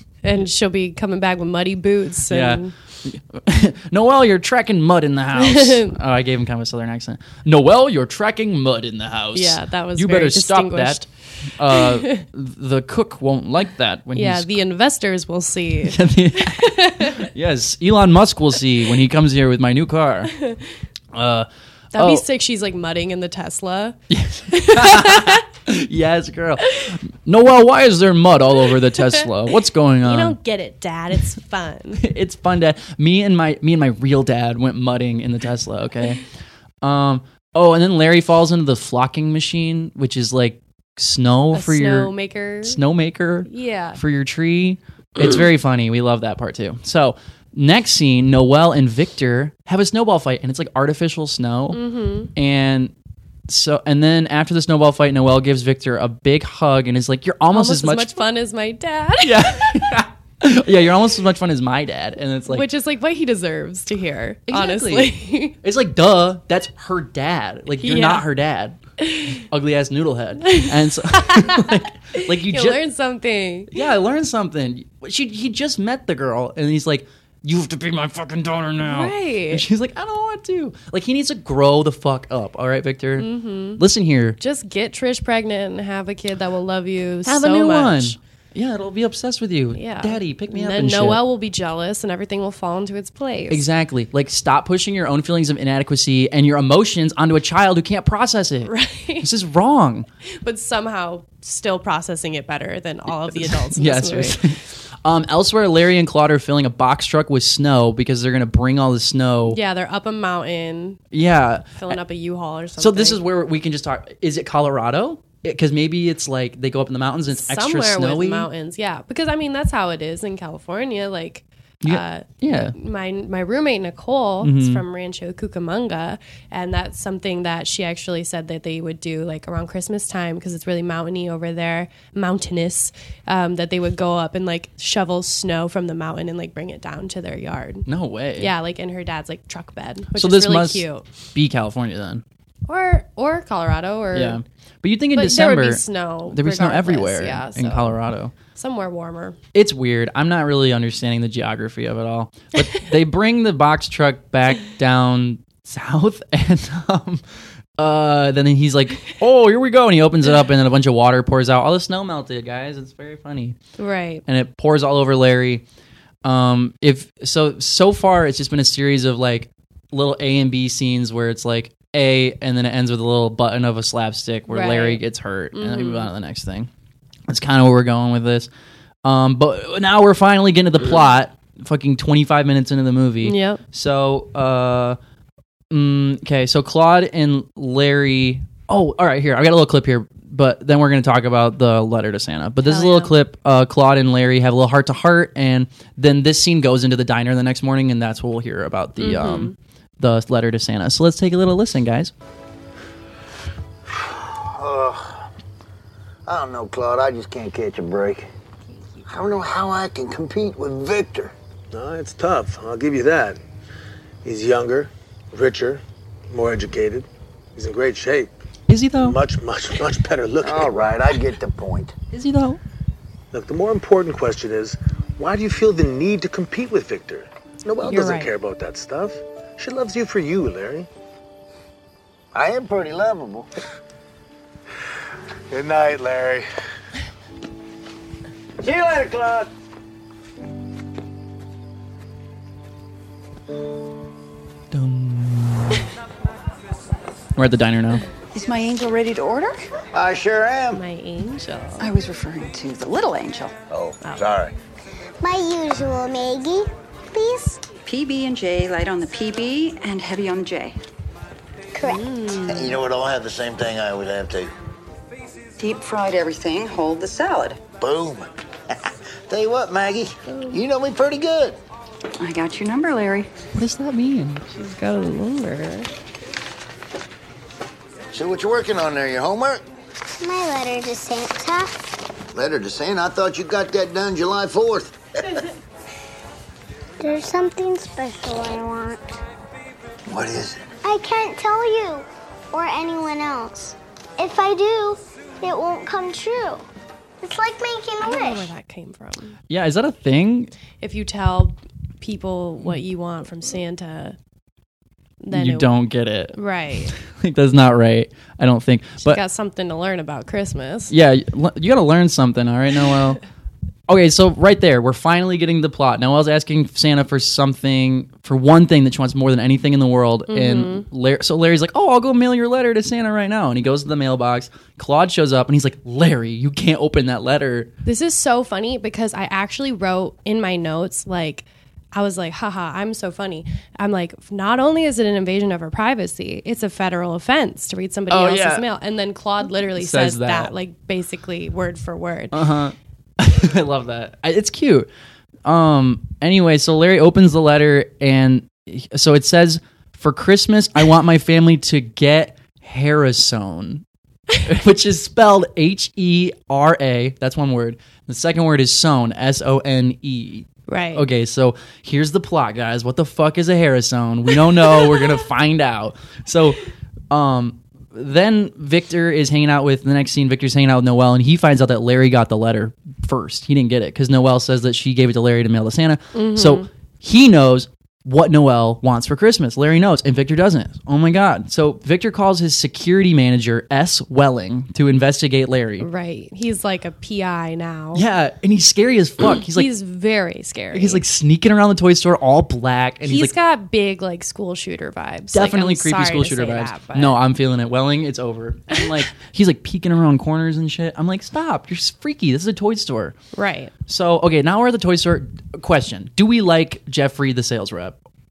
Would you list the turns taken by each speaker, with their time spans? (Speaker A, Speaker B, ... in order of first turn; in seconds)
Speaker A: 0.2-2.7, 5.3-5.9, 9.3-12.2, 14.1-17.2, 20.4-20.7, 21.9-24.0, 24.5-25.4, 30.0-32.0, 41.5-42.8, 43.5-44.0, 51.7-52.3, 57.5-60.0, 62.5-65.6, 67.8-68.2, 69.1-69.4, 70.4-73.8, 78.8-79.6, 83.2-83.8, 84.4-88.2, 89.7-93.6, 98.7-99.3, 100.4-104.4, 109.5-111.0, 111.7-113.2, 117.3-137.8, 138.4-141.1, 142.7-144.4, 145.1-148.0, 148.5-149.4, 163.8-164.2, 174.5-175.0, 175.5-176.1, 183.2-183.6, 192.6-193.1, 199.0-199.6, 227.8-228.3, 250.7-251.9, 254.0-254.3, 261.8-262.8, 270.3-270.6, 274.5-275.9, 298.0-299.4, 300.8-304.2, 305.2-305.7, 306.3-306.9, 309.0-310.9, 320.3-320.9, 327.8-342.4, 360.7-361.1, 376.1-376.7, 385.8-388.0, 389.5-391.0, 393.0-397.1, 403.3-403.7
Speaker B: 2.3-14.5, 15.8-20.3, 21.1-22.2, 24.1-30.4, 32.0-36.2, 36.8-42.1, 42.6-51.8, 52.3-52.9, 53.5-58.2, 59.2-62.7, 64.5-68.8, 69.4-72.8, 73.7-84.4, 87.2-91.2, 93.5-100.1, 103.4-109.6, 111.1-112.0, 112.8-118.5, 121.8-122.7, 124.4-124.8, 137.8-138.5, 140.1-142.2, 144.1-148.3, 149.5-157.2, 157.8-163.6, 164.2-165.6, 166.2-176.7, 177.3-178.5, 179.0-185.0, 185.7-202.1, 218.7-219.2, 222.1-222.6, 244.7-245.9, 247.3-248.0, 273.5-274.5, 299.5-300.5, 305.3-306.4, 306.9-309.2, 310.9-313.2, 313.9-327.7, 338.1-338.6, 339.7-340.5, 342.3-344.9, 345.4-353.8, 354.4-366.6, 367.1-385.9, 387.9-389.7, 390.7-393.3, 395.3-403.1, 403.9-408.0
Speaker C: 203.9-205.2, 206.3-208.3, 209.1-211.3, 220.4-221.9, 232.3-233.5, 238.6-239.5, 249.9-250.8, 253.7-254.5, 262.4-264.5, 267.8-271.6, 278.1-279.6, 282.3-285.3, 290.1-290.6
Speaker D: 211.7-213.4, 214.2-218.3, 219.0-221.2, 223.3-230.9, 235.5-236.4
Speaker E: 248.3-249.7, 251.8-253.6, 257.8-260.8, 265.6-267.6, 272.2-273.3
Speaker F: 255.2-257.6, 261.7-262.1, 280.2-281.9, 287.0-289.2, 290.8-296.6, 297.2-298.5